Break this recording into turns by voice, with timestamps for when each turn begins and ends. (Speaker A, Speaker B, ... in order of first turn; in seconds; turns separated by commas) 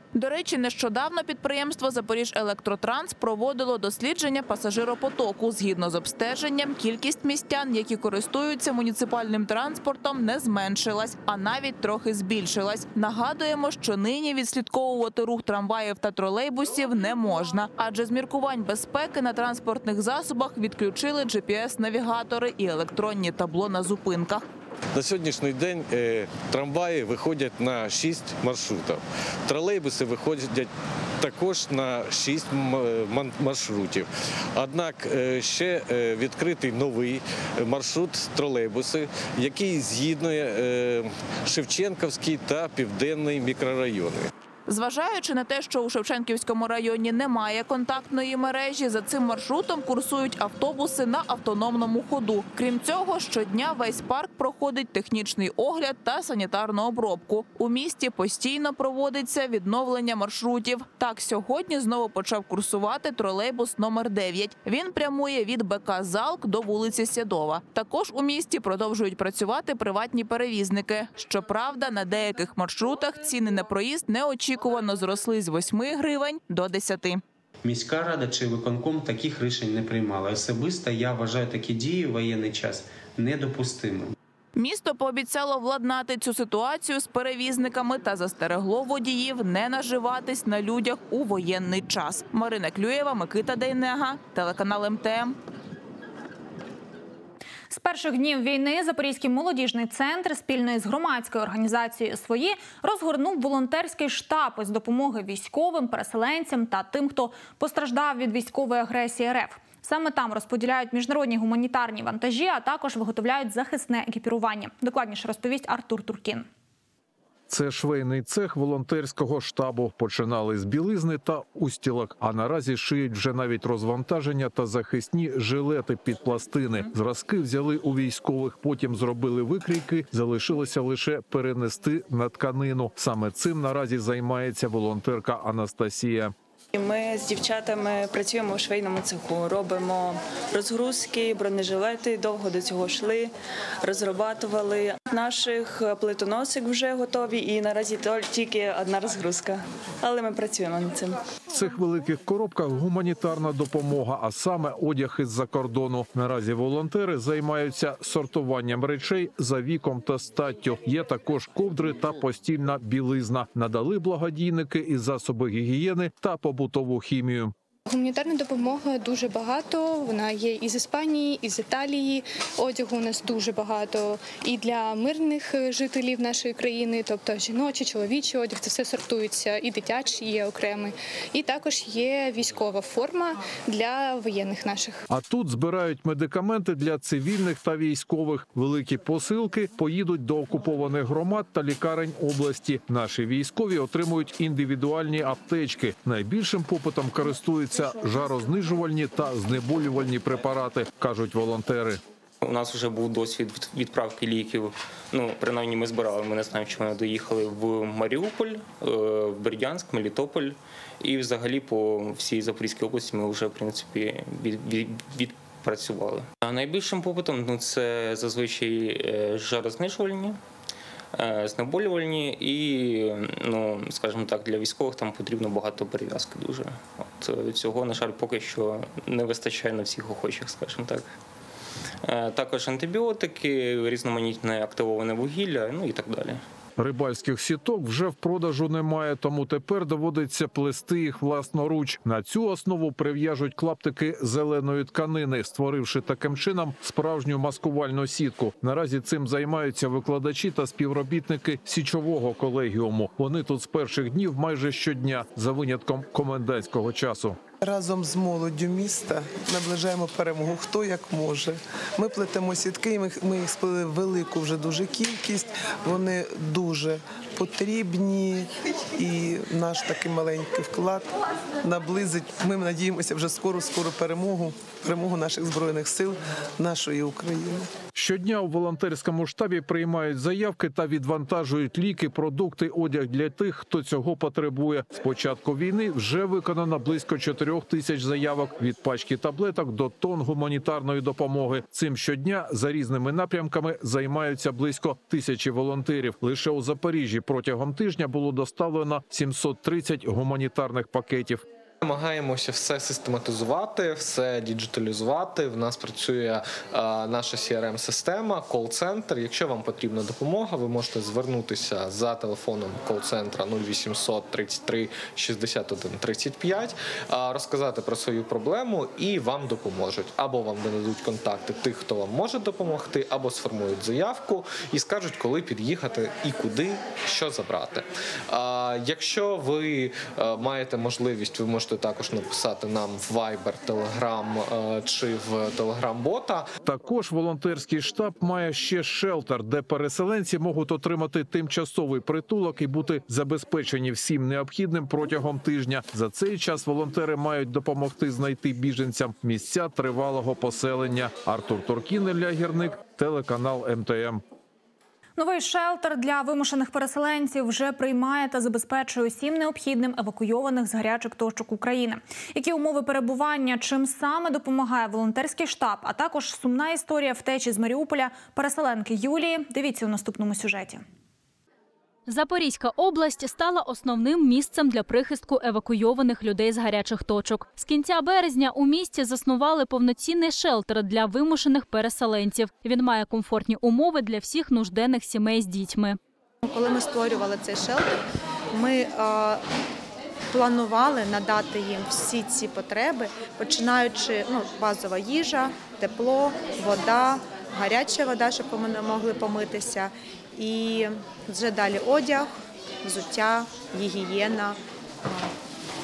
Speaker A: 0.1-24.4, Speaker B: 24.9-44.3, Speaker A: 44.7-77.2, Speaker C: 77.6-84.1, Speaker A: 84.6-95.4, Speaker D: 97.7-116.5, Speaker E: 117.5-136.3, Speaker F: 136.7-151.2, Speaker E: 151.5-167.5, Speaker G: 167.9-185.0, Speaker E: 185.1-202.0, Speaker H: 202.4-220.4, Speaker H: 221.1-231.1, Speaker H: 232.0-236.4, Speaker E: 236.8-257.4, Speaker I: 257.6-277.7, Speaker E: 277.9-301.4, Speaker J: 301.8-336.5, Speaker E: 336.6-354.2, Speaker D: 355.2-370.8, Speaker K: 372.1-386.0, Speaker L: 386.4-388.0, Speaker L: 388.5-389.4, Speaker L: 390.3-405.3